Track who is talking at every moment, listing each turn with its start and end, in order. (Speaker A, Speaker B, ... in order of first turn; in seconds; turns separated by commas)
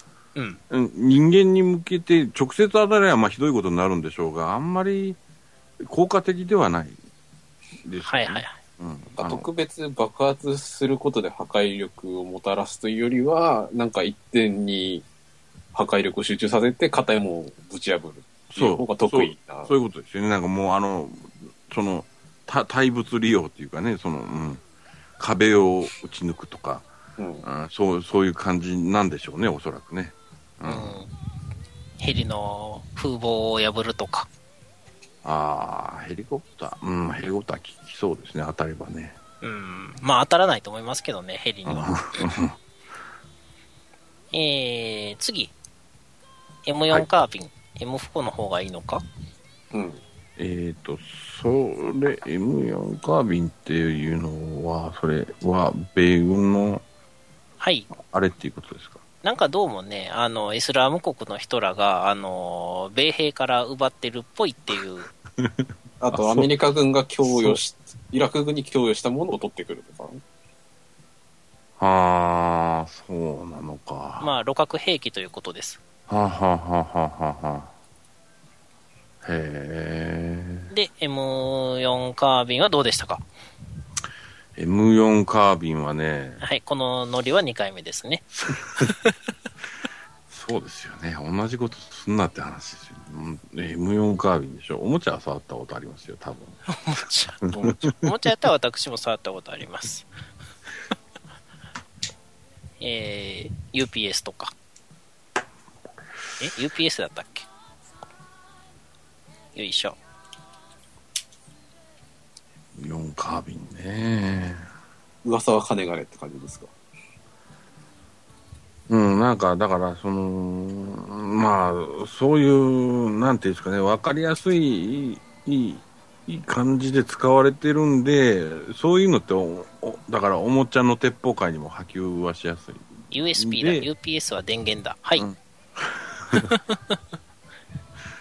Speaker A: 0.7-5.2, Speaker A: 5.8-7.0, Speaker A: 7.8-9.4, Speaker B: 8.0-8.6, Speaker C: 9.2-15.1, Speaker C: 15.7-19.7, Speaker A: 18.5-24.6, Speaker A: 25.2-31.0, Speaker C: 27.2-27.4, Speaker B: 30.6-31.1, Speaker B: 32.0-34.3, Speaker A: 35.2-39.2, Speaker B: 39.4-42.3, Speaker A: 41.6-42.6, Speaker B: 44.3-45.5, Speaker B: 46.6-49.0, Speaker C: 49.7-50.0, Speaker A: 50.4-56.8, Speaker B: 57.6-57.9, Speaker A: 57.9-59.0, Speaker B: 59.2-65.1, Speaker A: 65.4-66.5, Speaker C: 66.0-70.2, Speaker A: 67.2-67.6, Speaker A: 71.8-74.3, Speaker B: 74.2-75.8, Speaker A: 76.1-77.7, Speaker A: 79.2-80.7, Speaker B: 80.7-83.2, Speaker A: 84.5-86.4, Speaker B: 86.4-89.1, Speaker A: 88.4-88.9, Speaker A: 90.3-96.6, Speaker B: 96.7-97.4, Speaker A: 97.5-98.0, Speaker C: 97.5-97.8, Speaker B: 98.0-100.1, Speaker B: 102.8-104.5, Speaker B: 106.4-107.5, Speaker B: 109.5-110.0, Speaker A: 112.7-114.7, Speaker C: 115.2-116.7, Speaker A: 118.9-133.9, Speaker B: 133.1-135.2, Speaker A: 135.2-136.5, Speaker B: 136.4-136.8